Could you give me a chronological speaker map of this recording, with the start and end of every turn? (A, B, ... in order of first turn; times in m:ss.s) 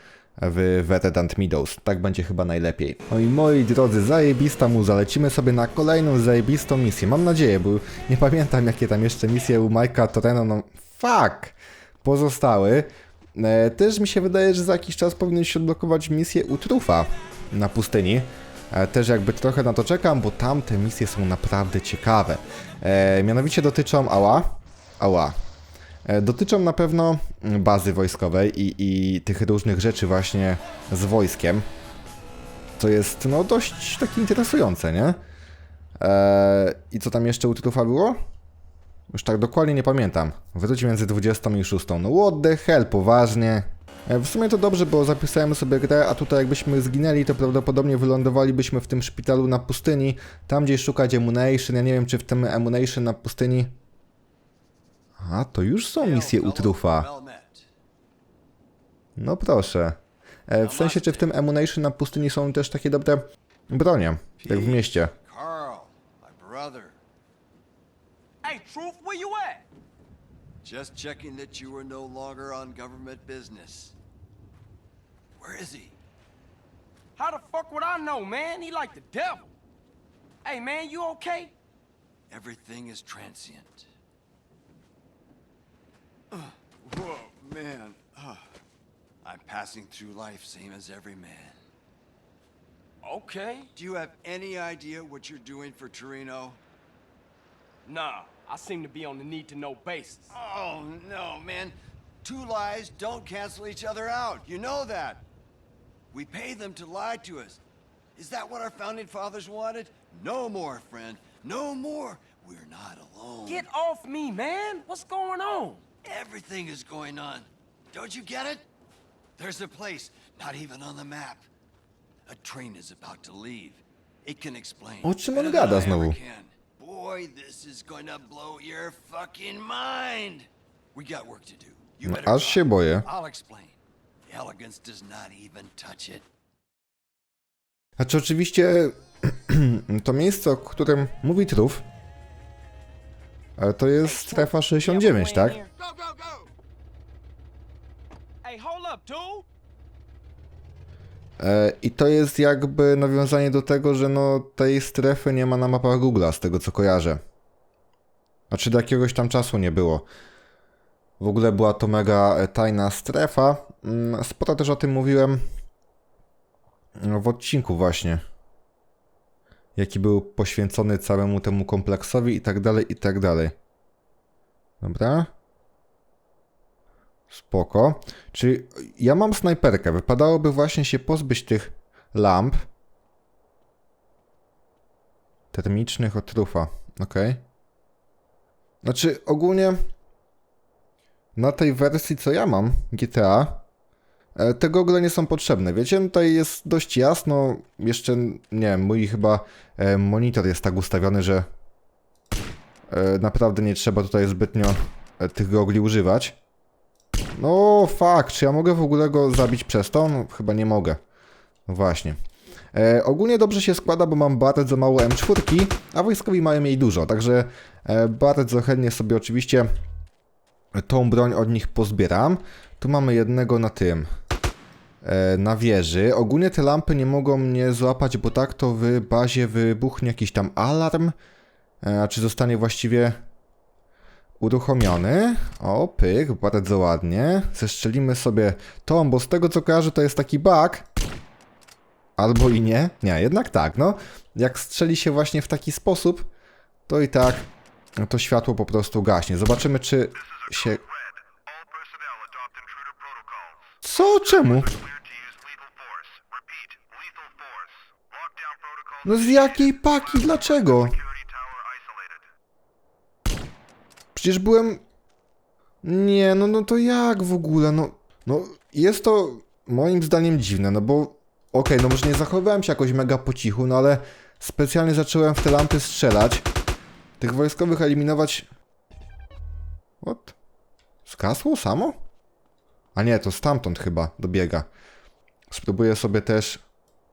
0:00.4-0:25.3 A
0:26.0-0:31.6 A
0:32.8-0:35.2 A
0:36.0-0:38.2 A
0:39.1-0:53.7 A
0:55.2-0:57.1 A
0:56.0-0:57.6 B
0:59.2-1:05.1 A
1:00.6-1:01.3 B
1:04.4-1:07.0 B
1:08.4-1:09.6 C
1:10.6-1:13.9 B
1:15.4-1:16.0 B
1:17.2-1:19.5 C
1:20.4-1:21.5 C
1:22.3-1:23.9 B
1:26.3-1:28.5 B
1:29.2-1:31.6 B
1:33.0-1:33.7 C
1:33.7-1:36.6 B
1:37.8-1:40.3 C
1:40.3-1:45.2 B
1:46.1-1:47.6 B
1:48.2-1:53.7 B
1:53.4-1:55.8 C
1:56.0-1:58.7 B
1:59.4-2:01.4 B
2:02.3-2:16.2 B
2:05.0-2:06.2 A
2:12.0-2:13.1 A
2:18.0-2:21.8 A
2:23.6-2:25.6 A
2:24.0-2:25.7 C
2:25.8-2:26.5 B
2:28.4-2:29.4 C
2:31.4-2:37.2 A
2:38.5-2:40.0 A
2:41.2-2:45.4 A
2:47.0-2:48.2 A
2:49.8-2:53.6 A
2:54.8-2:55.3 A
2:57.3-3:02.7 A
3:05.5-3:07.4 A
3:08.8-3:09.8 A
3:11.4-3:13.6 A
3:14.4-3:21.5 A
3:22.9-3:26.4 A
3:27.3-3:31.0 A
3:31.7-3:32.2 A
3:32.7-3:39.7 A
3:40.8-3:44.1 A
3:45.0-3:51.1 A
3:51.8-3:53.2 A
3:54.4-4:00.8 A
4:02.2-4:06.3 A
4:06.9-4:10.8 A
4:13.8-4:14.8 A
4:19.0-4:21.0 A
4:24.1-4:24.8 A
4:25.8-4:36.4 A
4:37.2-4:38.4 A
4:40.0-4:40.3 A
4:41.0-4:42.0 A
4:42.9-4:44.7 A
4:45.5-4:46.6 A